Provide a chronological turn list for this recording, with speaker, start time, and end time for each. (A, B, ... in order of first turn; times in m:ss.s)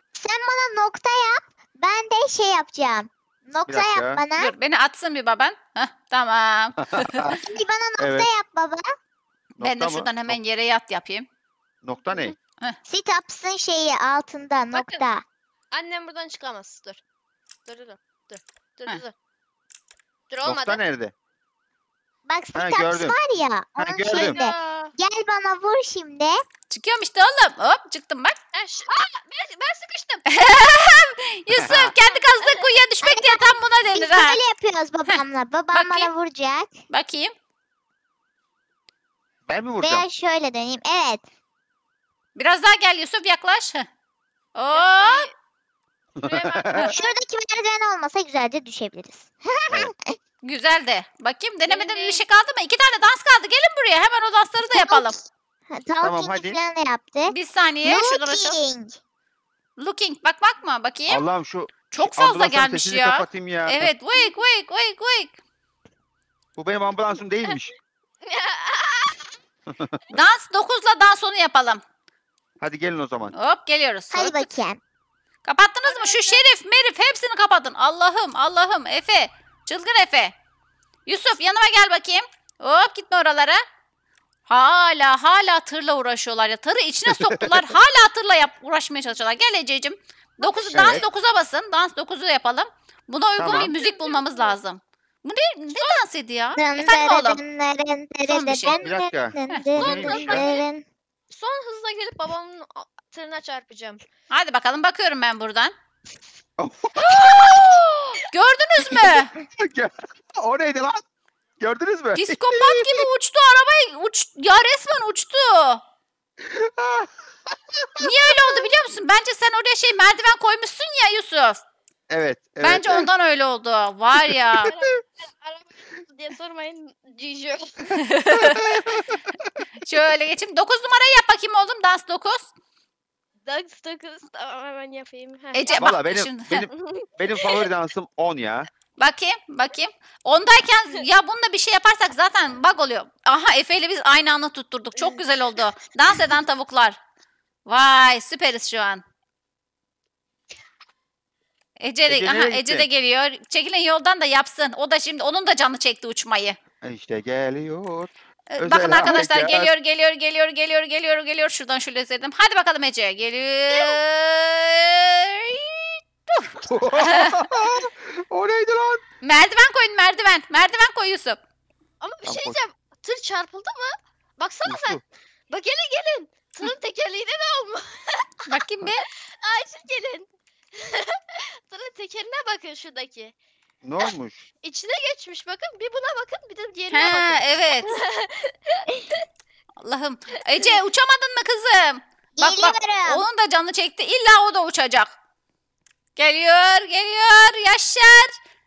0:00.2-0:04.5 A
0:03.7-0:04.2 B
0:04.4-0:07.4 C
0:06.8-0:07.4 B
0:07.4-0:08.9 A
0:08.0-0:08.3 B
0:09.6-0:10.4 B
0:09.6-0:11.2 C
0:11.8-0:12.4 B
0:12.8-0:15.2 A
0:14.7-0:15.0 D
0:15.7-0:17.0 D
0:17.7-0:19.1 D
0:20.3-0:20.8 D
0:20.4-0:21.1 B
0:22.3-0:26.4 A
0:22.5-0:23.2 B
0:23.8-0:24.4 B
0:24.1-0:24.9 D
0:26.7-0:28.4 C
0:28.5-0:30.3 D
0:30.3-0:34.4 C
0:31.5-0:31.9 B
0:32.1-0:32.6 D
0:33.0-0:36.7 A
0:35.1-0:36.1 C
0:36.9-0:37.3 C
0:39.5-0:40.0 B
0:39.8-0:41.2 A
0:42.4-0:43.9 C
0:44.5-0:45.3 C
0:44.7-0:45.3 D
0:46.2-0:47.0 B
0:46.2-0:46.9 D
0:46.8-0:50.2 A
0:50.4-0:55.2 C
0:51.7-0:52.2 D
0:54.7-0:59.0 A
0:56.0-0:56.6 B
0:57.3-0:58.6 C
0:59.8-1:01.2 C
1:01.1-1:03.9 B
1:01.9-1:05.3 C
1:06.6-1:07.7 B
1:08.2-1:09.3 D
1:09.7-1:10.0 B
1:10.1-1:11.8 C
1:12.6-1:13.3 B
1:13.3-1:14.5 C
1:14.1-1:14.8 A
1:15.4-1:20.3 C
1:15.9-1:16.4 D
1:21.0-1:23.6 C
1:24.5-1:37.4 C
1:27.2-1:27.6 B
1:30.4-1:31.0 D
1:30.7-1:31.0 B
1:33.4-1:33.7 B
1:33.5-1:34.6 D
1:35.7-1:36.0 D
1:36.6-1:40.8 A
1:38.2-1:38.8 C
1:38.7-1:40.5 B
1:39.8-1:40.6 D
1:41.3-1:44.0 D
1:44.3-1:45.7 C
1:46.6-1:47.7 B
1:47.0-1:48.2 D
1:48.3-1:49.3 C
1:48.8-1:51.0 B
1:51.6-1:53.1 B
1:52.1-1:55.8 C
1:56.4-1:58.0 B
1:58.0-2:01.6 C
2:02.1-2:03.1 B
2:02.6-2:04.7 C
2:04.6-2:08.0 D
2:07.9-2:08.8 C
2:08.4-2:09.1 B
2:09.8-2:12.5 C
2:13.4-2:15.8 D
2:15.5-2:16.7 C
2:15.7-2:18.7 B
2:16.8-2:17.7 D
2:19.0-2:27.0 C
2:27.6-2:29.0 C
2:31.8-2:36.6 C
2:32.1-2:32.8 B
2:36.8-2:39.7 B
2:38.5-2:47.4 C
2:43.7-2:44.0 D
2:46.6-2:49.0 B
2:49.2-2:51.4 C
2:52.0-2:58.5 D
2:52.2-2:52.6 B
2:54.6-2:55.0 B
2:58.5-2:59.1 C
2:59.3-3:03.3 D
3:03.8-3:04.4 B
3:04.6-3:09.2 D
3:06.9-3:08.0 C
3:09.8-3:15.1 C
3:12.4-3:13.2 A
3:16.2-3:18.3 C